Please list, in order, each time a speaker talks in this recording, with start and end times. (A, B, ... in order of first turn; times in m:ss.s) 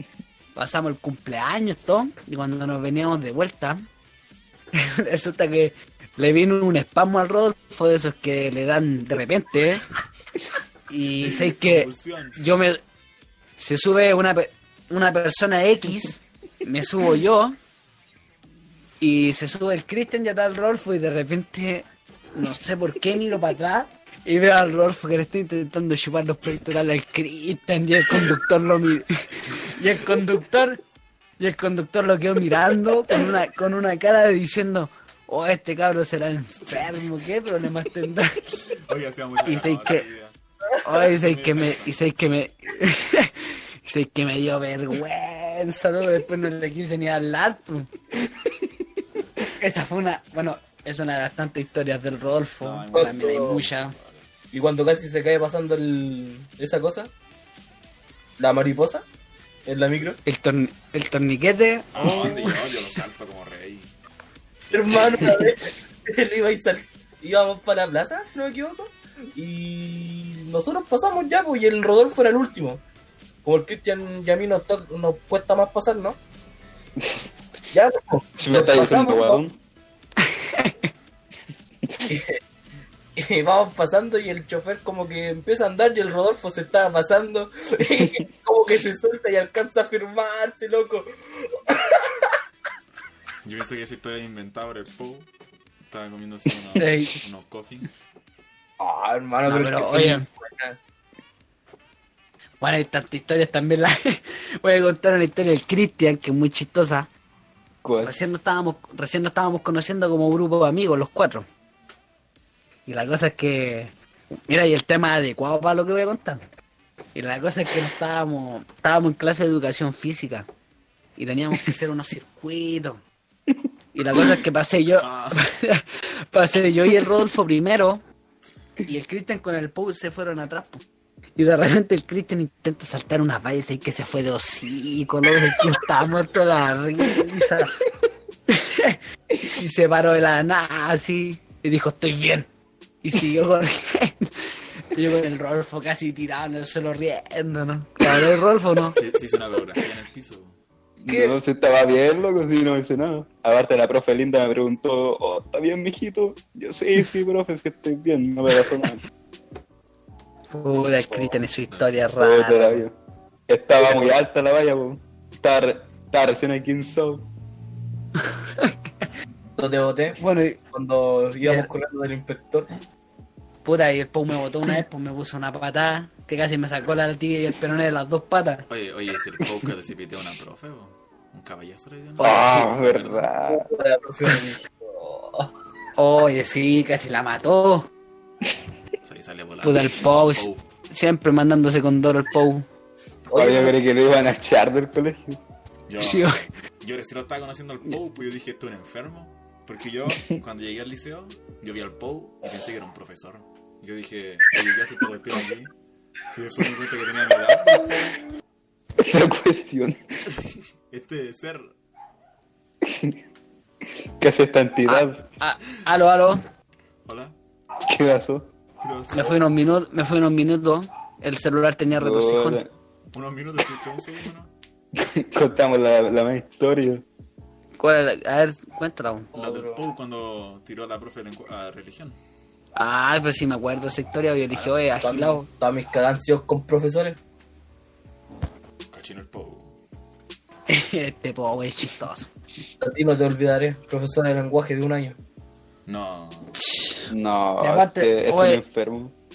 0:00.5-0:03.9 A
0:04.7-0:09.8 A
0:10.9-0:12.8 A
0:11.2-0:12.4 B
0:13.6-0:17.6 A
0:19.0-0:30.8 A
0:29.5-0:29.8 B
0:31.4-0:38.4 A
0:38.6-0:40.4 B
0:39.4-0:40.1 A
0:40.8-0:47.9 A
0:41.0-0:42.0 B
0:49.6-0:53.9 A
0:52.6-0:54.3 B
0:52.9-0:53.6 C
0:54.5-0:57.1 C
0:58.4-0:59.0 C
0:59.6-1:00.2 C
1:00.2-1:02.7 A
1:01.9-1:03.9 B
1:04.7-1:12.8 C
1:13.4-1:16.2 C
1:17.7-1:19.4 C
1:18.4-1:19.6 D
1:20.2-1:20.8 A
1:22.0-1:22.4 C
1:23.2-1:32.3 C
1:33.4-1:35.3 B
1:35.9-1:37.9 B
1:36.7-1:37.2 A
1:38.8-1:40.8 C
1:39.4-1:40.2 A
1:42.6-1:47.1 A
1:47.8-1:48.1 D
1:48.0-1:51.4 A
1:52.9-1:53.9 A
1:54.5-1:56.4 A
1:57.1-2:00.5 A
2:01.2-2:03.0 A
2:03.9-2:08.0 A
2:05.0-2:05.4 B
2:08.9-2:10.8 A
2:11.4-2:17.8 A
2:18.5-2:22.5 A
2:23.0-2:29.0 A
2:28.9-2:30.6 B
2:31.0-2:39.0 D
2:31.1-2:31.4 A
2:40.5-2:42.9 A
2:42.2-2:42.9 D
2:43.5-2:47.3 D
2:49.6-2:50.2 C
2:50.2-2:50.6 A
2:50.7-2:52.7 C
2:51.4-2:51.7 A
2:53.6-2:58.7 A
2:58.7-3:03.3 B
3:02.2-3:02.7 A
3:02.2-3:03.7 D
3:03.5-3:05.5 C
3:06.0-3:07.9 A
3:09.0-3:10.6 B
3:09.6-3:12.6 A
3:13.3-3:13.8 C
3:13.3-3:15.4 D
3:15.9-3:25.7 B
3:16.0-3:16.4 A
3:26.3-3:28.2 B
3:29.0-3:30.0 D
3:30.3-3:31.7 B
3:32.8-3:33.2 D
3:34.2-3:35.2 D
3:34.9-3:36.4 A
3:37.0-3:37.4 B
3:37.9-3:38.5 D
3:38.8-3:39.4 B
3:39.1-3:42.6 A
3:41.9-3:42.7 D
3:43.1-3:44.5 B
3:44.9-3:47.0 D
3:47.8-3:49.3 A
3:49.3-3:49.8 C
3:49.3-3:52.2 B
3:52.8-3:55.5 A
3:54.5-3:57.2 C
3:58.9-3:59.7 B
4:00.7-4:02.3 A
4:02.8-4:05.2 C
4:05.9-4:06.6 B
4:06.7-4:07.0 A
4:07.1-4:09.1 D
4:07.6-4:08.6 A